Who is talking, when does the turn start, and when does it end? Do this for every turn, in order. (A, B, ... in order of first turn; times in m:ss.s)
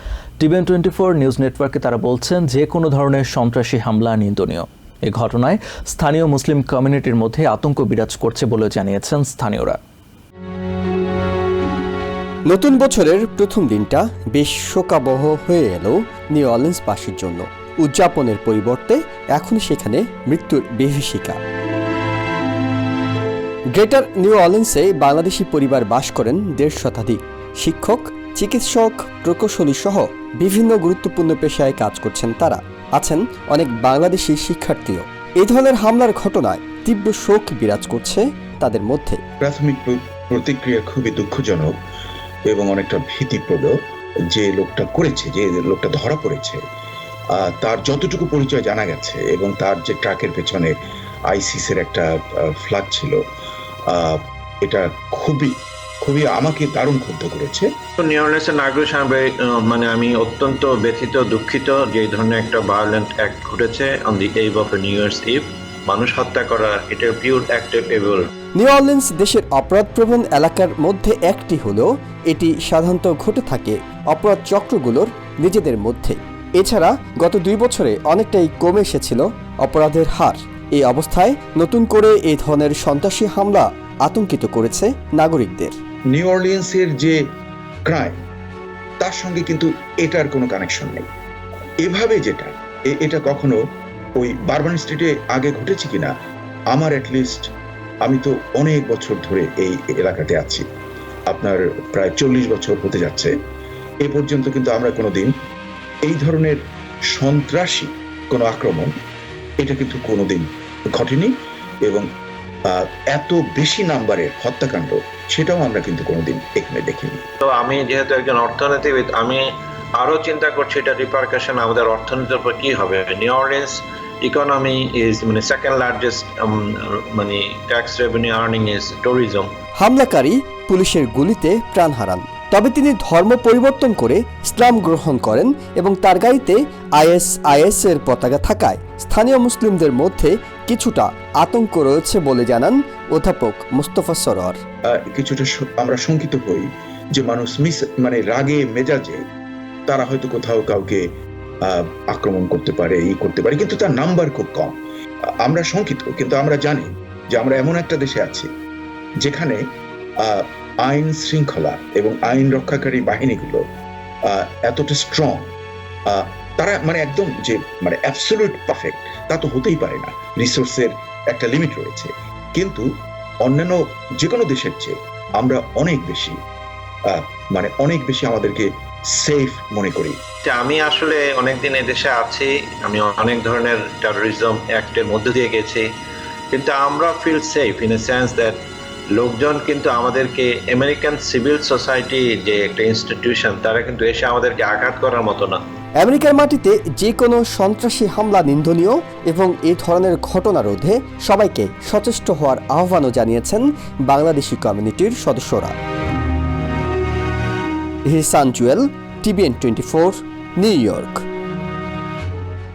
0:00.4-0:09.8 A
0:12.5-0:21.4 B
0:23.8-0:39.2 B
0:39.4-0:41.8 C
0:42.5-0:43.8 C
0:44.3-0:46.6 C
0:47.3-0:50.7 C
0:51.3-0:53.2 C
0:53.9-0:57.7 C
0:58.0-1:08.3 D
1:08.6-1:25.8 B
1:26.1-1:27.2 C
1:27.9-1:28.2 C
1:29.0-1:31.1 C
1:31.8-1:33.6 C
1:34.2-1:36.1 C
1:36.7-1:37.5 C
1:38.0-1:40.7 C
1:41.3-1:43.4 C
1:44.0-1:45.3 C
1:46.0-1:46.6 C
1:47.1-1:48.9 C
1:49.6-1:51.3 C
1:52.7-1:57.2 C
1:57.4-2:09.5 D
2:09.8-2:24.6 B
2:24.9-2:29.2 C
2:29.9-2:31.0 C
2:31.6-2:34.8 C
2:35.4-2:38.5 C
2:39.2-2:39.6 C
2:40.2-2:43.6 C
2:44.3-2:45.5 C
2:46.1-2:52.8 C
2:53.4-2:56.4 C
2:57.1-3:00.2 C
3:00.4-3:05.9 D
3:06.5-3:08.6 D
3:09.2-3:15.6 D
3:16.0-3:25.7 B
3:28.1-3:31.2 B